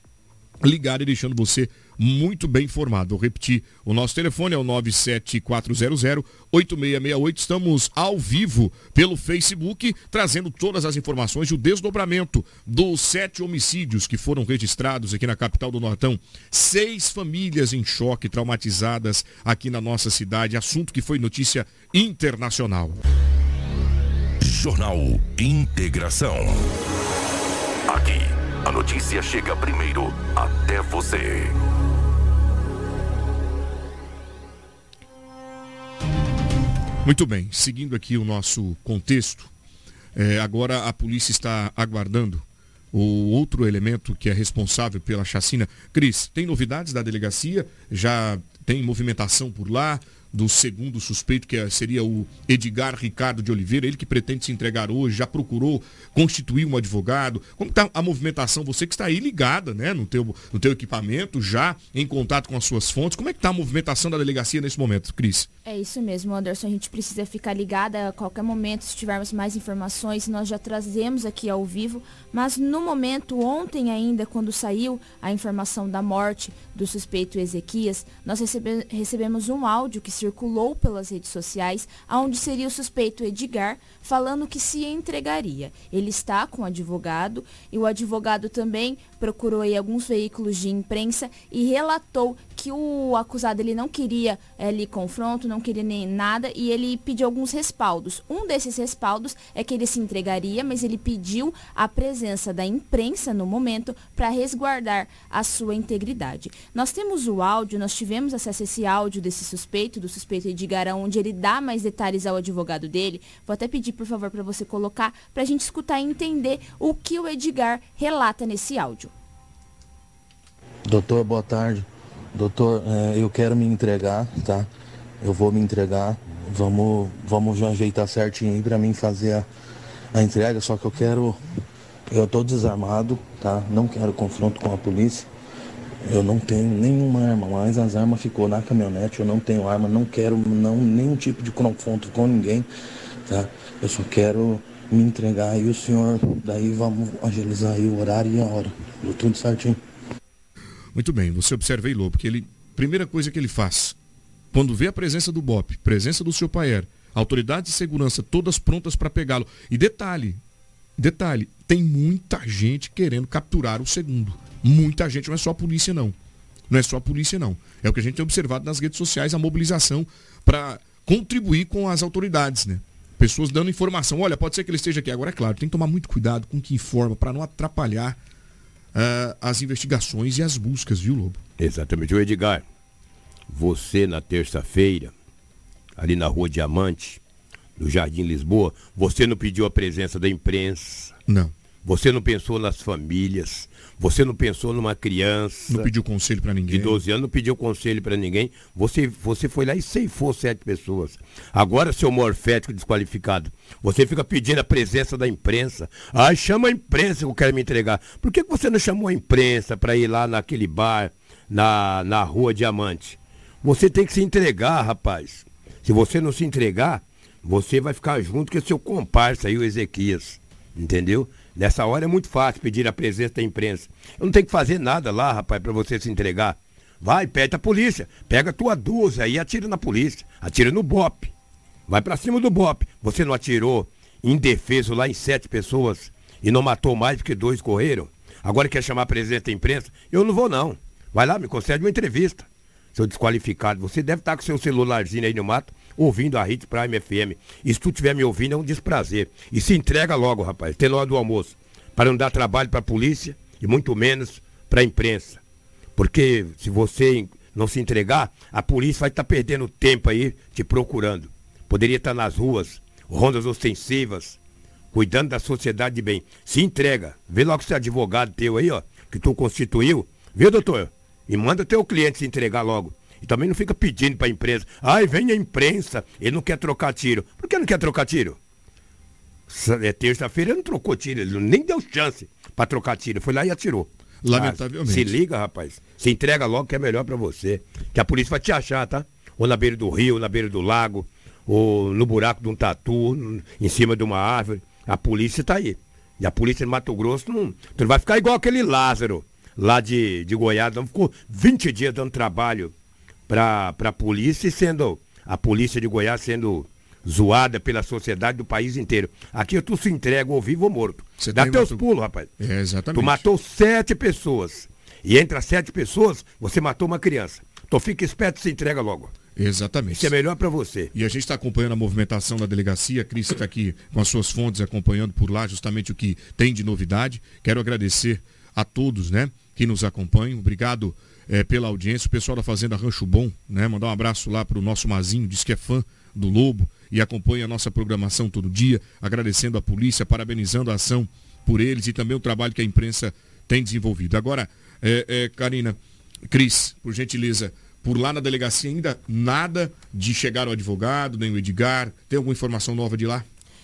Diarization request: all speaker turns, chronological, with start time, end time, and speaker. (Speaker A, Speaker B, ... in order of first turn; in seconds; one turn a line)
Speaker A: 0.6-23.0
Speaker B: 24.4-26.7
Speaker B: 27.9-31.6
Speaker A: 37.0-39.5
Speaker A: 40.1-65.5
Speaker C: 65.7-119.1
Speaker D: 120.9-124.7
Speaker D: 125.2-129.5
Speaker D: 130.1-131.4
Speaker D: 132.1-135.3
Speaker D: 136.1-142.7
Speaker D: 143.3-149.8
Speaker A: 150.9-153.9
Speaker A: 154.5-160.4
Speaker A: 161.0-166.1
Speaker A: 166.7-178.2
Speaker A: 178.9-181.4
Speaker E: 181.6-182.6
Speaker E: 183.5-185.1
Speaker E: 186.0-187.2
Speaker E: 187.8-191.1
Speaker A: 191.3-191.5
Speaker E: 191.8-195.9
Speaker A: 195.7-197.0
Speaker E: 196.7-231.3
Speaker E: 231.9-255.4
Speaker E: 255.9-264.4
Speaker E: 264.9-278.4
Speaker E: 279.5-302.7
Speaker A: 284.2-285.1
Speaker E: 303.3-312.3
Speaker A: 311.2-311.8
Speaker A: 312.4-313.2
Speaker E: 312.9-319.1
Speaker A: 319.4-320.1
Speaker E: 319.9-320.9
Speaker A: 320.9-345.8
Speaker A: 346.3-353.2